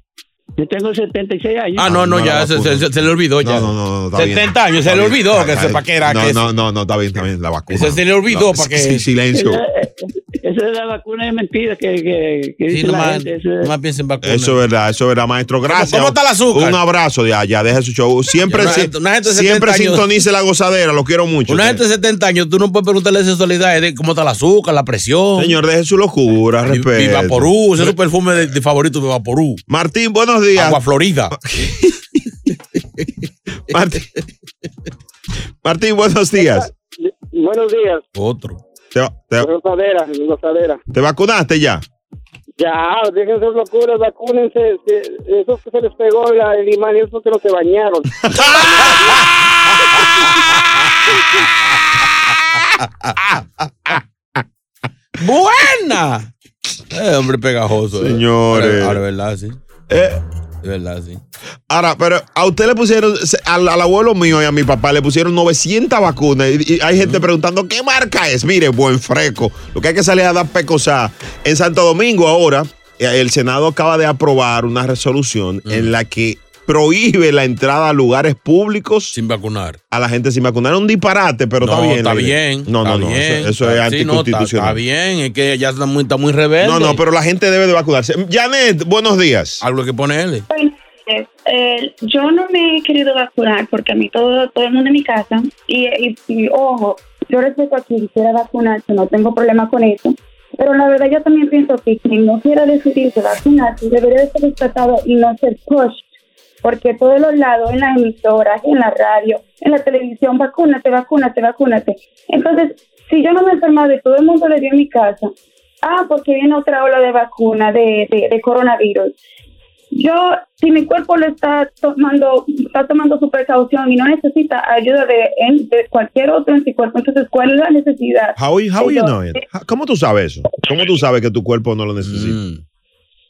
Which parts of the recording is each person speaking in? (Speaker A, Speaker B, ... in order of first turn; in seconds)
Speaker A: 0.6-1.9, 9.3-13.7
Speaker B: 1.8-6.5, 7.7-9.1, 12.7-14.6, 15.7-16.8, 18.4-20.1, 21.5-25.6, 26.7-29.6, 30.6-31.4, 38.1-38.6, 48.4-49.2, 55.2-56.3, 56.9-59.6, 60.6-61.2, 67.0-67.2, 75.7-75.9, 79.1-79.8, 81.6-87.0, 89.6-90.5, 132.0-132.6
Speaker C: 1.8-9.6, 14.2-21.8, 25.4-27.9, 29.7-32.2, 33.7-34.2, 35.6-36.7, 38.9-39.5, 40.9-41.8, 48.3-48.9, 52.5-54.4, 57.9-59.0, 59.9-60.2, 61.7-79.2, 79.9-84.8, 86.6-89.6, 128.4-132.4
Speaker D: 36.4-38.0, 39.4-40.8, 42.6-49.0
Speaker E: 90.5-106.1, 106.6-119.2, 119.9-129.2